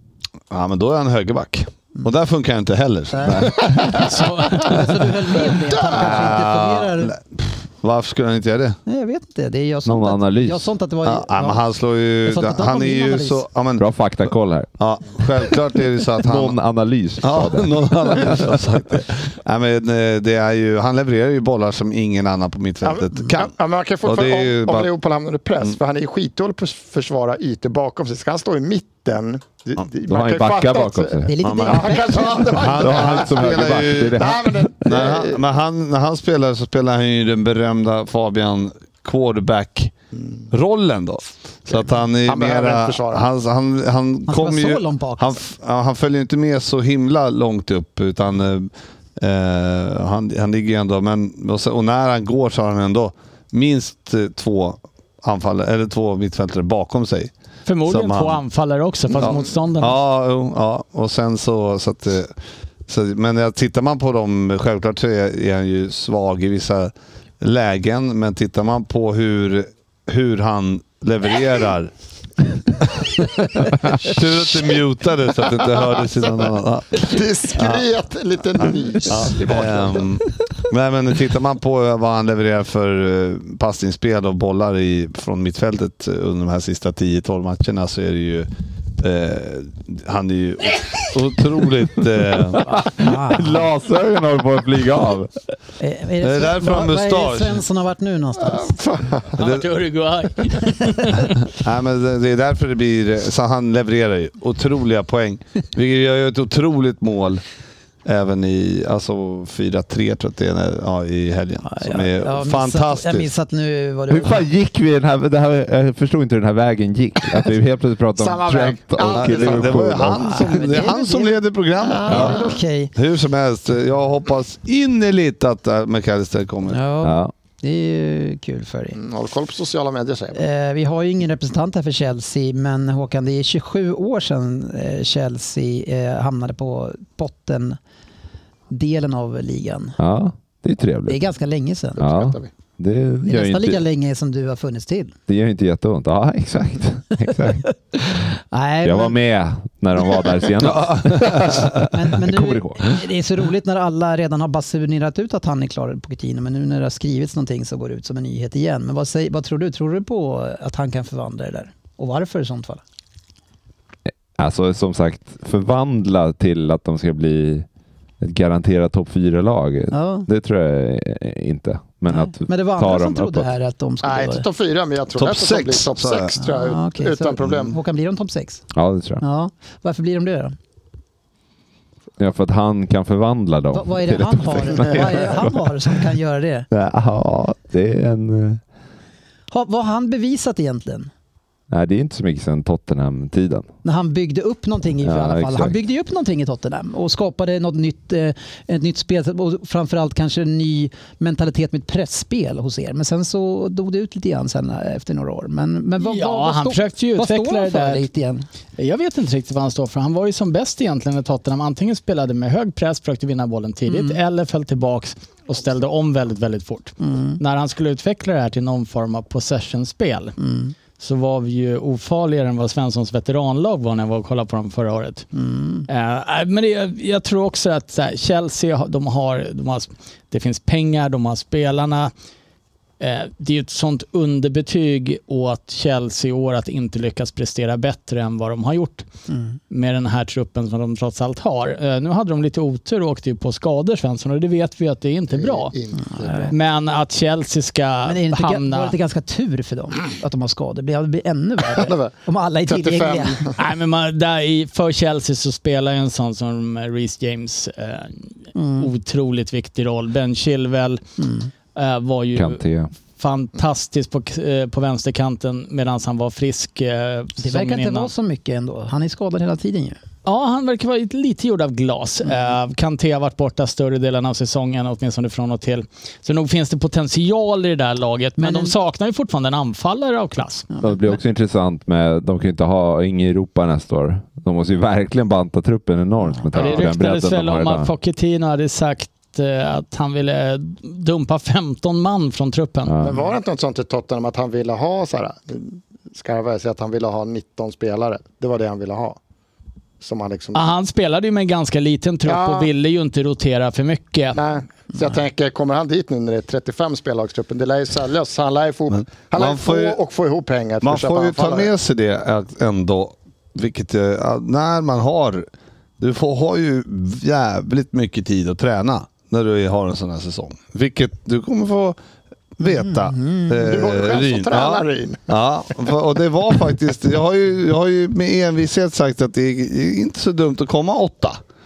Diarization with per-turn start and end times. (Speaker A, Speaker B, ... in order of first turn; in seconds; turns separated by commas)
Speaker A: 0.5-3.9, Speaker B: 3.1-3.9, Speaker C: 3.3-3.6, Speaker D: 3.9-4.9, Speaker B: 4.5-7.1, Speaker A: 5.8-8.8, Speaker B: 8.8-11.7, Speaker C: 9.8-10.7, Speaker A: 11.0-16.6, Speaker B: 12.2-13.4, Speaker C: 13.8-14.7, Speaker C: 16.2-18.5, Speaker A: 17.2-23.5, Speaker E: 22.8-35.4, Speaker A: 24.0-24.9, Speaker C: 30.1-31.8, Speaker B: 31.2-32.6, Speaker A: 31.4-39.9, Speaker C: 32.7-34.5, Speaker A: 40.5-57.3, Speaker E: 41.7-43.2, Speaker B: 44.3-45.4, Speaker D: 57.6-60.0, Speaker A: 57.9-58.4, Speaker A: 59.2-62.3, Speaker A: 62.9-71.9, Speaker A: 72.7-77.8, Speaker E: 77.0-80.0, Speaker A: 78.6-92.6, Speaker B: 92.7-93.7, Speaker C: 92.7-95.3, Speaker B: 95.8-98.8, Speaker A: 96.2-97.6, Speaker E: 98.4-99.3, Speaker D: 99.3-101.3, Speaker A: 99.4-99.7, Speaker A: 101.5-107.4, Speaker A: 108.0-113.3, Speaker B: 111.6-114.4, Speaker C: 114.1-120.5, Speaker E: 118.2-119.8, Speaker A: 119.1-126.8, Speaker B: 120.1-121.4, Speaker E: 121.9-122.5, Speaker B: 122.0-122.9, Speaker B: 126.7-129.0, Speaker C: 127.0-127.3, Speaker E: 128.9-130.4, Speaker B: 130.3-137.8, Speaker B: 138.7-140.0, Speaker C: 140.0-141.2, Speaker B: 141.1-142.0, Speaker C: 142.0-143.8, Speaker E: 142.0-142.5, Speaker B: 143.2-145.1, Speaker C: 145.3-147.7, Speaker B: 147.9-149.2, Speaker C: 148.8-153.0, Speaker A: 150.6-151.8, Speaker B: 151.8-162.8, Speaker C: 164.3-167.7, Speaker C: 168.2-173.5, Speaker B: 169.9-170.3, Speaker B: 172.1-174.4, Speaker E: 174.0-177.8, Speaker A: 175.2-176.3, Speaker B: 176.4-178.6, Speaker C: 178.7-179.2, Speaker B: 179.2-180.5, Speaker C: 182.2-185.6, Speaker B: 183.7-186.7, Speaker C: 186.7-188.6, Speaker B: 189.5-191.1, Speaker C: 191.7-193.7, Speaker B: 193.8-208.4, Speaker C: 195.0-195.7, Speaker D: 206.0-208.1, Speaker D: 208.8-220.4, Speaker B: 213.9-214.2, Speaker B: 217.0-217.4, Speaker B: 220.4-220.7, Speaker D: 221.0-225.3, Speaker B: 225.3-225.9, Speaker D: 225.9-232.1, Speaker D: 233.0-239.1, Speaker B: 239.3-239.6, Speaker D: 239.7-245.7, Speaker E: 245.3-246.5, Speaker B: 246.0-246.5, Speaker D: 246.5-248.9, Speaker B: 248.0-253.5, Speaker E: 251.8-252.1, Speaker E: 252.7-253.5, Speaker D: 253.6-261.0, Speaker B: 258.5-258.9, Speaker B: 261.2-261.5, Speaker D: 261.7-268.1, Speaker C: 262.3-262.9, Speaker B: 267.4-270.0, Speaker D: 270.2-280.7, Speaker B: 278.4-278.7, Speaker B: 280.7-281.1, Speaker C: 280.8-287.9, Speaker D: 286.5-292.9, Speaker C: 292.9-293.2, Speaker E: 293.0-299.2, Speaker E: 300.0-300.6, Speaker D: 300.5-304.4, Speaker E: 302.2-302.7, Speaker E: 304.3-311.7, Speaker A: 308.9-310.0, Speaker A: 310.8-315.5, Speaker A: 316.0-322.0, Speaker A: 322.6-331.4, Speaker B: 322.6-323.7, Speaker E: 323.6-325.2